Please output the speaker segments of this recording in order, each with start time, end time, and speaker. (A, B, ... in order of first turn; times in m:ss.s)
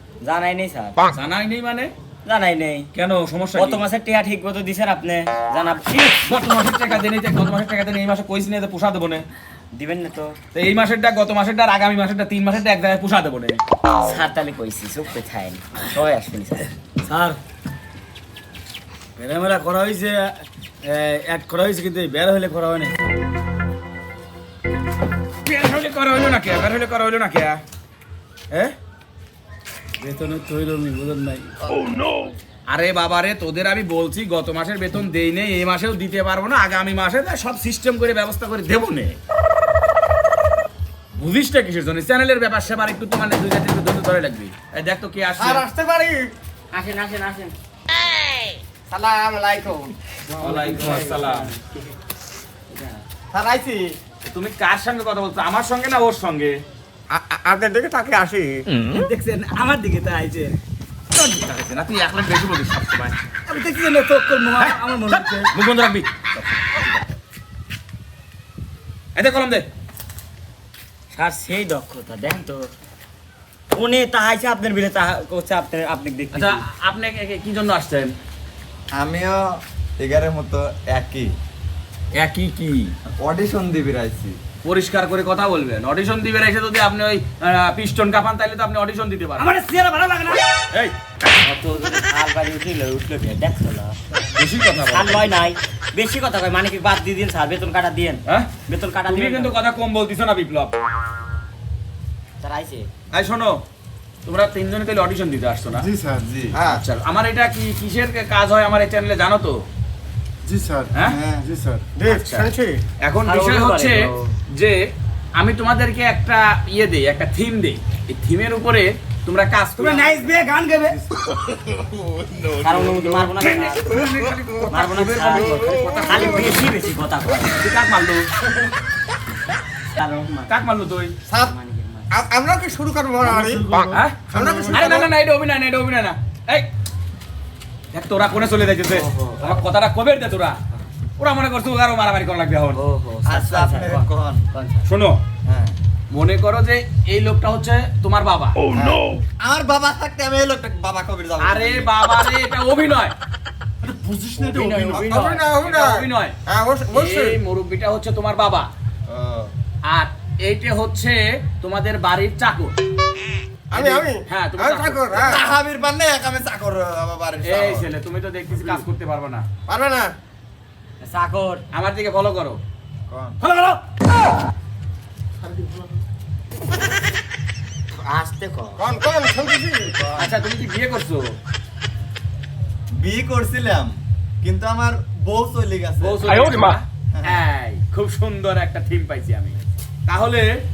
0:00.2-0:01.0 A
0:01.1-0:01.9 B
0:02.3-0:02.9 A
0:02.9-0:03.8 B
0:03.6-0:06.3 A
0:06.2-0:09.3 B
0:09.7-0:10.4 A
0:10.5-0:13.6 B
0:14.0-0:17.3 A
0:19.2-0:20.2 C
0:20.8-0:22.9 C
0:25.4-0:27.6 B
0:30.0-0:31.5 C
0:31.8-0:32.2 D
0:32.7-0:39.2 B
0:41.2-0:45.7 B
0:45.4-0:46.1 D
0:45.9-0:46.2 E
0:46.7-0:47.6 A
0:48.9-0:49.8 D
0:49.4-0:49.8 E
0:50.4-0:51.5 B
0:50.4-0:51.8 A
0:52.7-0:53.0 A
0:53.3-0:53.8 D
0:54.2-0:56.6 B
0:57.1-0:58.7 E
0:59.2-1:00.5 C
1:01.1-1:03.2 B
1:03.6-1:05.0 C
1:04.6-1:05.3 A
1:04.6-1:06.1 B
1:09.2-1:09.7 B
1:11.1-1:12.7 A
1:13.7-1:16.6 A
1:16.3-1:18.2 B
1:19.0-1:19.4 D
1:20.0-1:21.3 D
1:22.2-1:22.9 B
1:23.2-1:24.4 D
1:24.6-1:29.5 B
1:29.4-1:30.4 A
1:31.4-1:34.0 A
1:34.4-1:35.3 B
1:34.9-1:39.6 A
1:39.0-1:40.8 B
1:42.4-1:42.9 A
1:43.1-1:43.6 B
1:44.2-1:45.9 B
1:45.7-1:46.2 F
1:46.2-1:46.8 D
1:46.6-1:49.6 B
1:50.4-1:51.9 F
1:50.9-1:51.2 B
1:51.0-1:51.4 D
1:52.0-1:52.8 E
1:52.1-1:52.5 B
1:53.0-1:54.8 B
1:53.3-1:54.3 A
1:55.4-2:00.4 B
1:59.8-2:00.9 A
2:02.6-2:04.0 A
2:03.4-2:06.6 B
2:04.7-2:07.6 A
2:07.6-2:08.3 B
2:10.0-2:10.5 A
2:10.5-2:11.2 B
2:11.4-2:12.2 A
2:12.1-2:13.7 E
2:13.5-2:13.9 F
2:13.9-2:14.2 B
2:14.3-2:15.1 E
2:14.4-2:15.0 D
2:14.7-2:16.7 B
2:17.9-2:20.6 B
2:18.9-2:19.6 A
2:21.2-2:22.8 B
2:22.8-2:24.9 A
2:23.2-2:24.5 D
2:24.9-2:25.2 B
2:25.5-2:25.8 D
2:26.1-2:28.6 B
2:28.7-2:31.9 D
2:31.4-2:33.2 B
2:33.8-2:35.1 F
2:34.5-2:35.4 A
2:35.0-2:37.4 E
2:35.1-2:36.4 B
2:36.9-2:38.7 B
2:39.1-2:39.5 D
2:39.9-2:42.7 B
2:43.7-2:45.1 B
2:43.7-2:45.4 E
2:45.2-2:47.9 D
2:47.4-2:49.5 B
2:49.7-2:50.1 E
2:51.0-2:51.6 A
2:51.7-2:52.6 B
2:53.1-2:53.4 D
2:53.5-2:53.7 A
2:55.4-2:55.9 E
2:58.0-2:58.9 A
2:58.8-2:59.9 E
2:59.9-3:00.4 D
3:00.2-3:01.3 B
3:03.0-3:06.5 D
3:06.0-3:10.5 B
3:07.1-3:07.4 D